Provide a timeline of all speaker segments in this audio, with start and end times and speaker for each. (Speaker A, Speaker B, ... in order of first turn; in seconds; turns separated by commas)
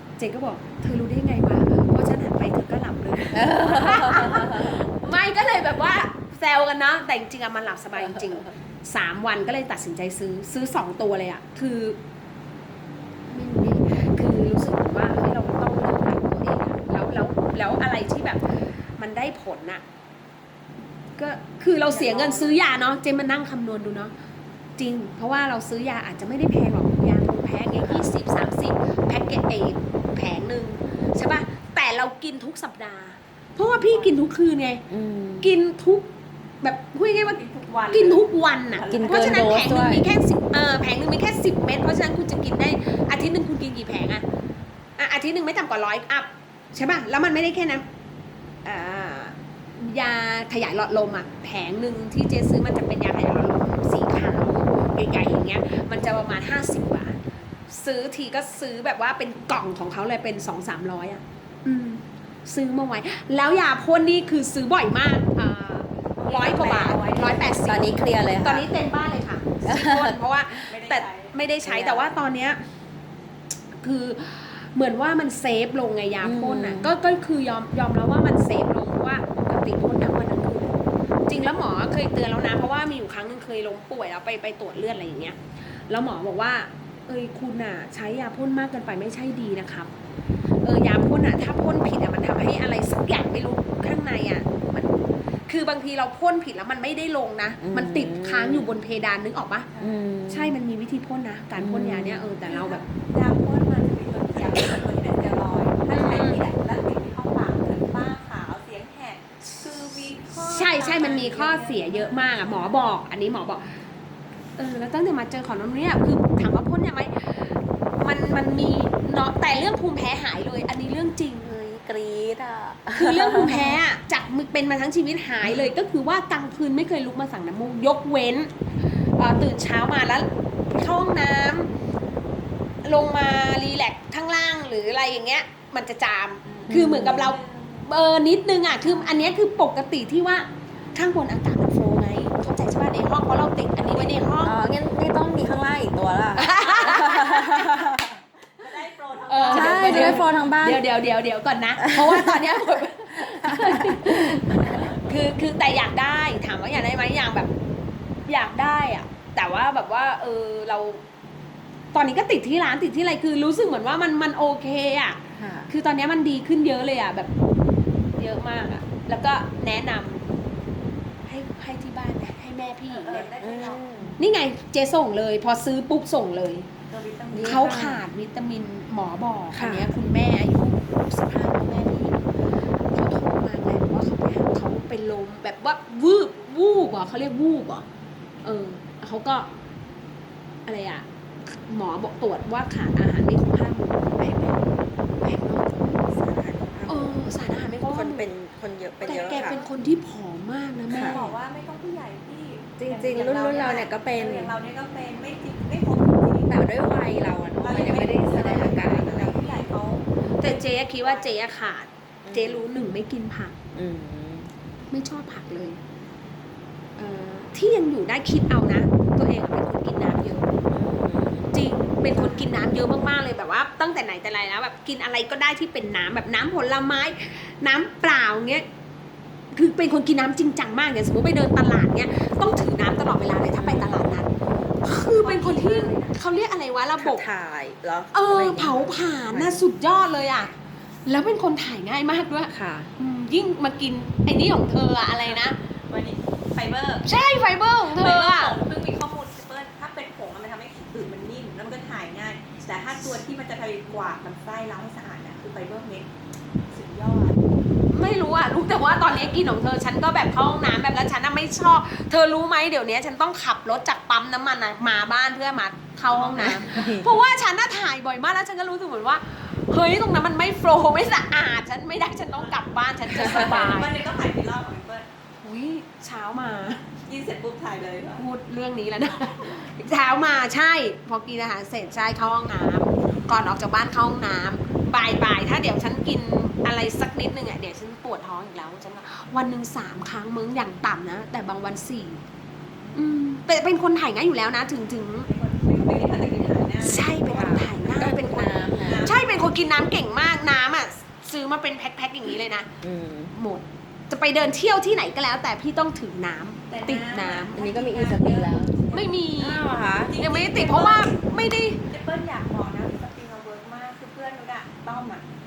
Speaker A: 0.2-12.0, Speaker B: 3.3-4.8, Speaker B: 8.0-8.5, Speaker A: 13.3-19.8, Speaker A: 21.2-24.1, Speaker C: 21.9-22.3, Speaker B: 21.9-22.5, Speaker A: 24.8-34.8, Speaker B: 27.8-28.1, Speaker B: 34.9-35.5, Speaker A: 35.4-36.1, Speaker A: 36.6-37.4, Speaker C: 37.2-39.5, Speaker A: 37.9-44.2, Speaker B: 38.9-40.1, Speaker A: 45.0-47.9, Speaker A: 48.6-72.6, Speaker C: 66.2-67.7, Speaker B: 67.7-68.7, Speaker B: 69.7-70.2, Speaker C: 70.7-71.3, Speaker B: 71.7-72.1, Speaker A: 73.8-85.4, Speaker B: 76.2-76.9, Speaker A: 85.9-89.9, Speaker A: 90.6-99.7, Speaker B: 97.6-98.7, Speaker B: 99.8-100.6, Speaker A: 100.3-102.8, Speaker B: 101.6-102.3, Speaker C: 102.5-112.8, Speaker A: 105.9-106.4, Speaker A: 110.5-113.7, Speaker A: 114.6-121.5, Speaker B: 121.4-123.8, Speaker A: 123.0-128.5, Speaker B: 125.4-125.7, Speaker A: 129.2-131.7, Speaker A: 132.8-144.6, Speaker C: 136.5-137.9, Speaker B: 136.7-137.4, Speaker B: 144.4-148.2, Speaker A: 146.4-148.0, Speaker C: 148.6-150.4, Speaker A: 149.3-157.5, Speaker B: 149.5-150.8, Speaker B: 151.8-152.5, Speaker B: 153.1-154.6, Speaker C: 154.6-155.0, Speaker A: 158.3-161.0, Speaker A: 161.9-167.3, Speaker B: 165.4-165.7, Speaker A: 168.2-170.2, Speaker A: 171.3-173.3, Speaker C: 172.9-174.1, Speaker B: 173.4-174.2, Speaker A: 174.2-176.7, Speaker C: 176.9-177.8, Speaker B: 177.3-178.0, Speaker A: 177.4-182.2, Speaker B: 179.5-179.9, Speaker A: 182.9-187.8, Speaker A: 188.4-189.5, Speaker A: 190.7-194.7, Speaker A: 195.2-196.0, Speaker B: 196.1-197.2, Speaker A: 196.9-198.3, Speaker B: 197.8-199.6, Speaker C: 199.0-199.7, Speaker A: 199.0-201.2, Speaker B: 200.9-201.3, Speaker C: 200.9-207.0, Speaker B: 202.8-204.6, Speaker B: 206.5-209.7, Speaker C: 207.6-211.3, Speaker A: 210.4-213.6, Speaker B: 212.2-212.7, Speaker B: 213.7-214.5, Speaker A: 214.9-215.8, Speaker A: 217.0-220.6, Speaker B: 220.7-221.5, Speaker A: 221.5-228.7, Speaker B: 222.1-222.5, Speaker A: 229.5-234.3, Speaker B: 233.6-234.2, Speaker A: 234.8-237.2, Speaker C: 235.1-236.2, Speaker B: 237.0-239.7, Speaker A: 238.1-240.5, Speaker A: 241.1-245.6, Speaker B: 242.5-242.9, Speaker C: 245.1-247.1, Speaker A: 247.1-248.6, Speaker C: 247.8-256.1, Speaker C: 256.7-257.4, Speaker A: 257.9-274.0, Speaker C: 266.1-266.6, Speaker B: 266.4-267.1, Speaker C: 273.1-275.1, Speaker B: 273.2-273.4, Speaker A: 275.4-276.9, Speaker C: 277.1-278.2, Speaker A: 278.2-292.2, Speaker A: 292.9-295.3, Speaker C: 295.3-297.2, Speaker A: 296.8-302.7, Speaker B: 297.3-299.1, Speaker C: 298.9-299.4, Speaker B: 302.8-303.3, Speaker A: 303.3-307.6, Speaker C: 306.7-309.2, Speaker B: 307.6-308.8, Speaker A: 308.9-311.9, Speaker B: 309.4-310.1, Speaker C: 310.1-311.2, Speaker C: 311.9-315.2